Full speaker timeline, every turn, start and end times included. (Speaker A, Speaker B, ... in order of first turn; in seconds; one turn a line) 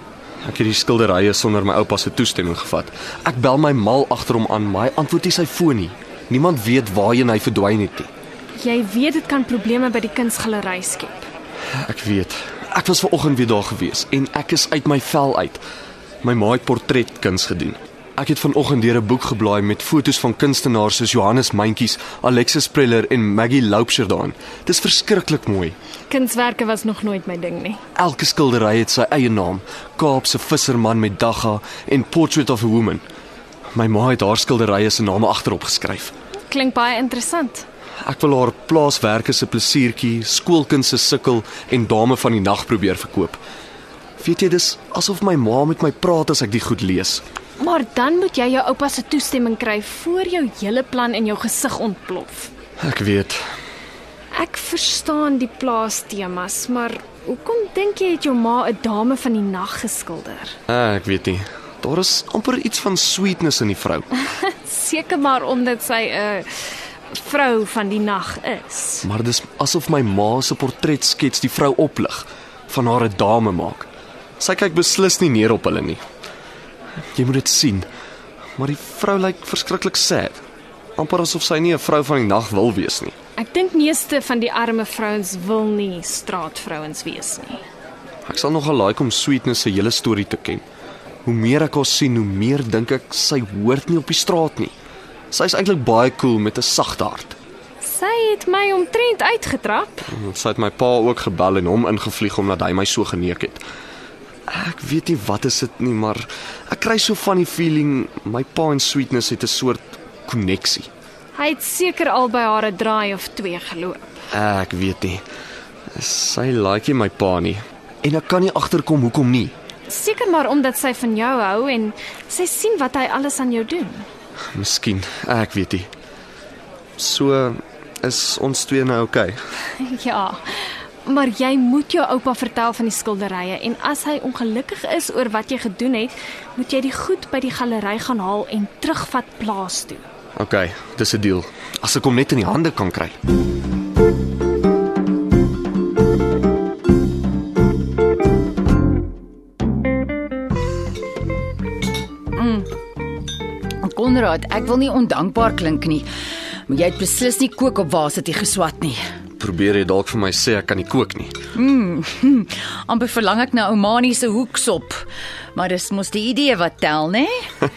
Speaker A: 0.4-8.1
Speaker B: 8.6-11.3
Speaker A: 11.8-15.6
Speaker A: 16.2-25.8
Speaker B: 26.1-27.8
Speaker A: 28.0-33.0
Speaker A: 33.7-36.1
Speaker B: 36.5-37.7
Speaker A: 38.0-43.4
Speaker A: 44.2-47.2
Speaker B: 47.6-52.5
Speaker A: 52.8-53.5
Speaker B: 54.3-60.6
Speaker A: 60.7-64.1
Speaker B: 64.6-69.0
Speaker A: 69.0-73.9
Speaker A: 74.4-76.0
Speaker A: 77.2-77.9
Speaker A: 78.6-80.4
Speaker A: 81.0-83.2
Speaker B: 83.4-87.6
Speaker A: 88.3-90.7
Speaker A: 91.2-94.7
Speaker A: 95.3-97.4
Speaker B: 97.8-100.1
Speaker A: 100.1-103.6
Speaker A: 104.5-110.9
Speaker B: 111.3-114.1
Speaker A: 114.3-115.2
Speaker A: 115.9-119.5
Speaker B: 119.9-124.1
Speaker A: 124.5-125.9
Speaker A: 127.0-129.4
Speaker B: 129.8-140.1
Speaker A: 140.4-143.2
Speaker C: 152.3-152.7
Speaker C: 153.8-156.1
Speaker C: 156.7-159.0
Speaker A: 159.4-161.3
Speaker C: 161.5-167.3